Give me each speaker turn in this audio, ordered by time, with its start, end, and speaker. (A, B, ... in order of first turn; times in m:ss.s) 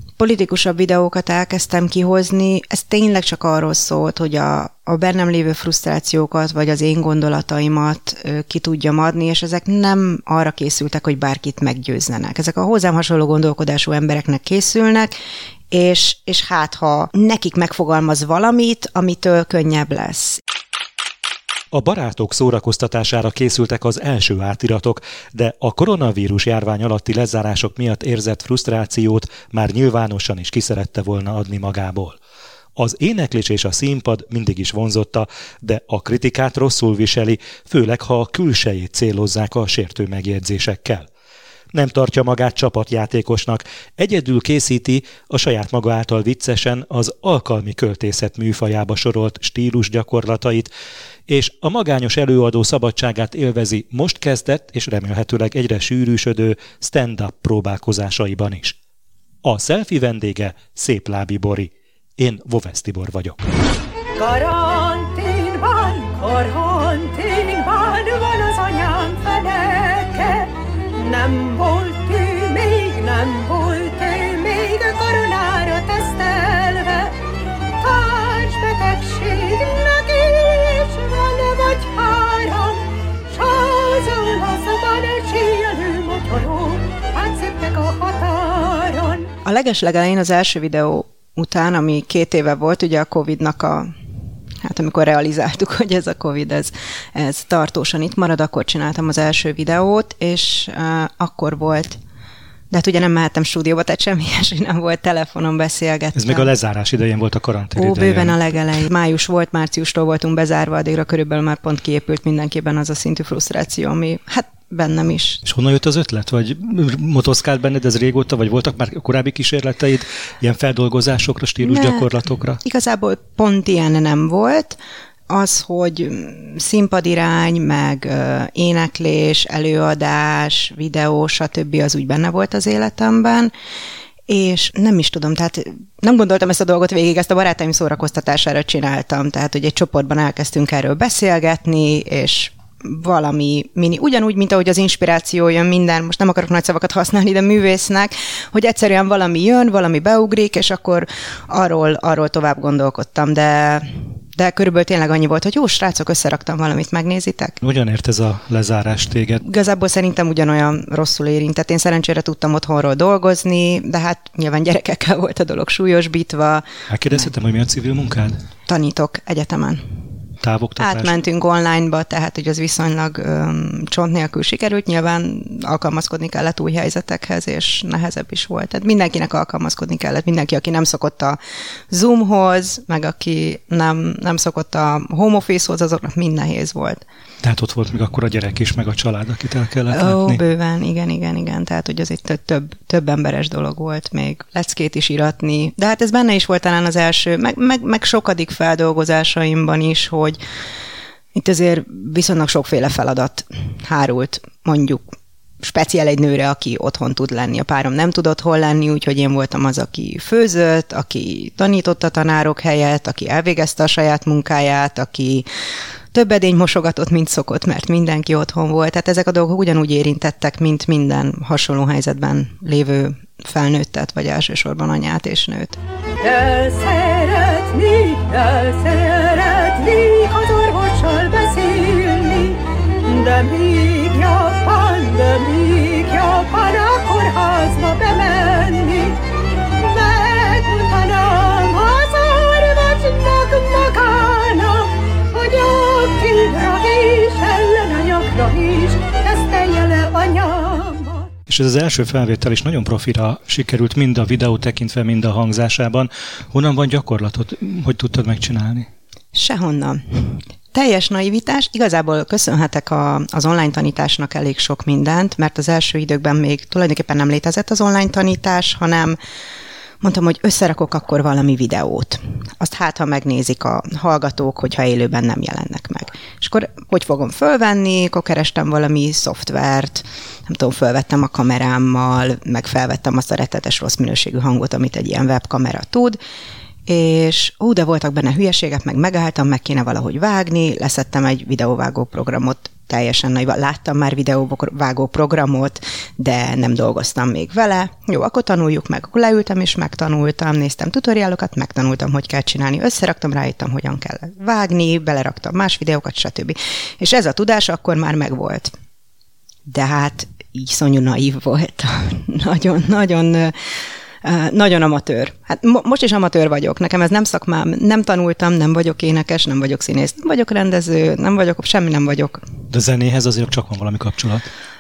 0:00.2-0:15.1 A
0:15.7-0:20.4 A
0:21.7-0:32.2 B
0:32.8-0:41.1 B
0:41.7-0:50.7 B
0:51.3-0:58.8 B
0:59.4-1:03.4 B
1:04.2-1:17.2 C
1:17.8-1:29.3 C
1:29.4-1:33.9 A
1:34.6-1:42.0 A
1:42.7-1:46.5 A
1:46.2-1:48.4 B
1:47.8-1:55.4 A
1:55.4-2:02.6 B
2:01.6-2:02.1 A
2:02.6-2:04.8 A
2:05.3-2:13.5 A
2:14.3-2:37.6 A
2:37.6-2:39.4 B
2:39.4-2:46.7 A
2:46.9-2:48.4 B
2:48.7-2:49.8 A
2:50.4-2:51.1 B
2:50.8-3:01.4 A
3:01.9-3:07.0 A
3:07.4-3:10.4 B
3:09.9-3:20.4 A
3:21.4-3:25.0 A
3:25.6-3:35.5 A
3:36.1-3:45.8 A
3:46.2-3:59.2 C
3:59.8-4:11.3 C
4:11.5-4:18.9 B
4:19.3-4:29.2 A
4:30.0-4:46.2 A
4:46.9-5:08.7 A
5:09.7-5:13.6 A
5:14.2-5:22.4 A
5:22.7-5:24.5 B